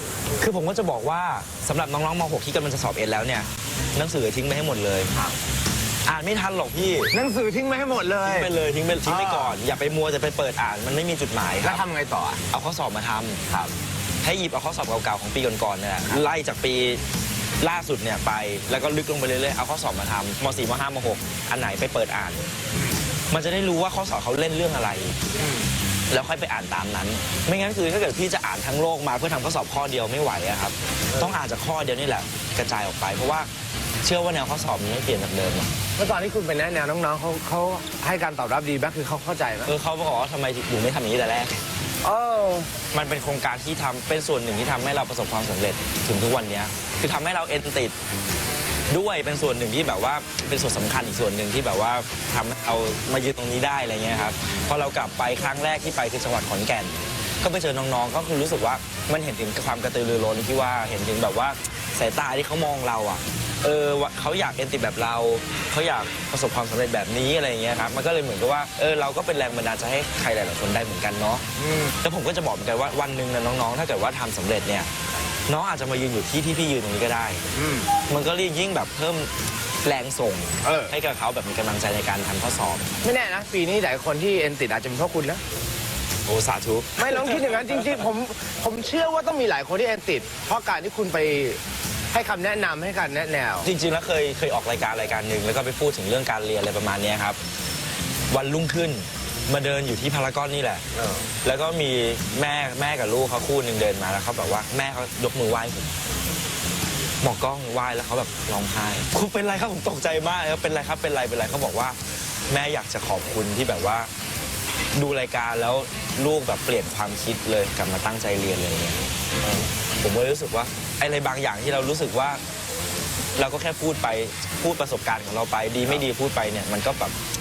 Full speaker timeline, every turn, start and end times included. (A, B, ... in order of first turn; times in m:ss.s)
0:00.4-0:05.1 A
0:06.1-0:07.1 A
0:07.1-0:08.5 B
0:08.2-0:11.8 A
0:09.0-0:09.6 B
0:11.6-0:12.4 B
0:12.5-0:13.4 A
0:14.2-0:17.0 A
0:17.6-0:22.5 A
0:23.3-0:25.2 A
0:26.1-0:33.5 A
0:34.0-0:35.7 A
0:36.0-0:39.7 B
0:39.7-0:41.6 A
0:42.0-0:42.7 B
0:42.9-0:48.0 A
0:48.9-1:11.4 A
1:11.6-1:11.9 B
1:12.0-1:14.9 A
1:15.5-1:17.4 A
1:17.6-1:17.9 B
1:18.1-1:19.3 A
1:19.8-1:22.9 A
1:20.6-1:20.9 B
1:23.0-1:25.4 B
1:26.3-1:27.8 A
1:27.0-1:31.6 B
1:32.1-1:33.7 B
1:33.6-1:37.4 A
1:38.3-1:40.8 A
1:41.4-1:45.9 A
1:47.2-1:52.0 A
1:52.5-1:54.1 A
1:55.0-1:59.1 A
2:00.0-2:02.4 A
2:03.4-2:07.2 A